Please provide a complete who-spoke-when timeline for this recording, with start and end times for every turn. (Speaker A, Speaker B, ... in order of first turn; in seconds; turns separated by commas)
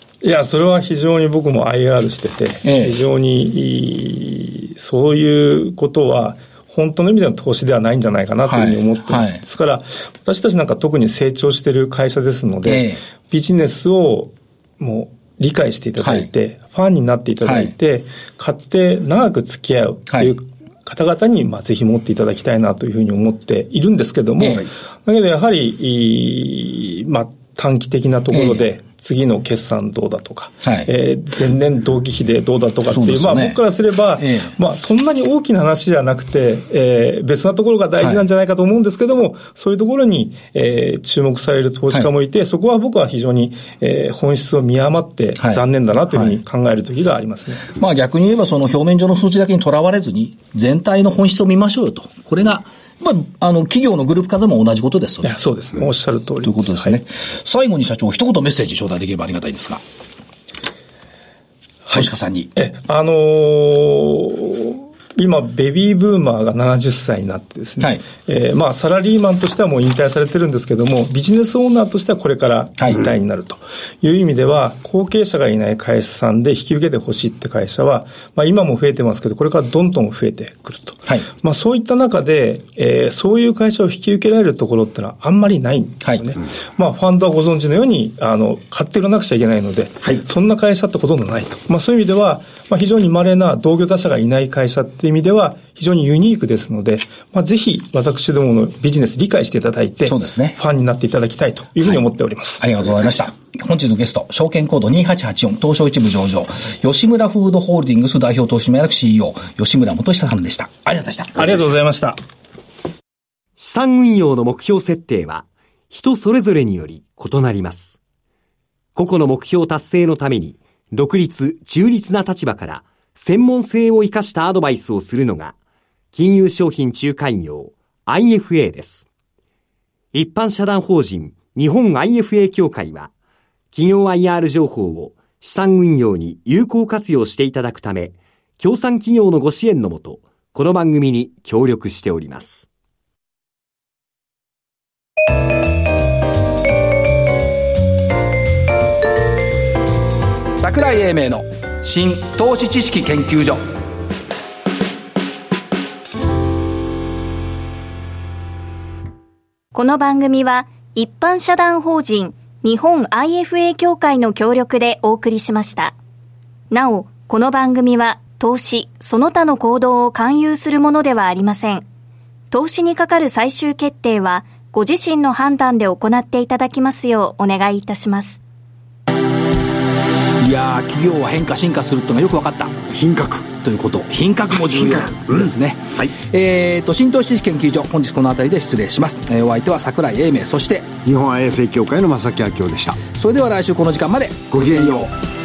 Speaker A: 0.2-47.7, Speaker B: 2.6-3.0, Speaker B: 8.4-9.4, Speaker B: 12.7-13.0, Speaker B: 16.0-16.3, Speaker B: 17.4-17.7, Speaker B: 24.4-24.7, Speaker B: 28.3-28.7, Speaker B: 30.6-30.9, Speaker B: 32.9-33.6, Speaker B: 34.2-34.5, Speaker B: 45.4-46.4, Speaker B: 47.7-55.3, Speaker A: 55.2-57.0, Speaker B: 56.4-59.8, Speaker A: 61.9-102.6, Speaker B: 61.9-62.5, Speaker B: 72.8-73.0, Speaker B: 100.0-100.6, Speaker B: 102.6-111.7, Speaker A: 111.3-112.2, Speaker C: 113.6-118.0, Speaker C: 118.9-125.5, Speaker C: 126.1-129.1, Speaker C: 130.1-133.1, Speaker C: 133.7-142.7, Speaker B: 150.6-153.6, Speaker D: 159.7-165.9, Speaker D: 166.7-171.8, Speaker D: 172.5-178.4, Speaker B: 180.4-182.8, Speaker E: 182.9-183.5, Speaker B: 183.6-190.9, Speaker E: 185.0-186.1, Speaker E: 191.0-193.0, Speaker B: 193.0-195.1, Speaker E: 194.5-195.1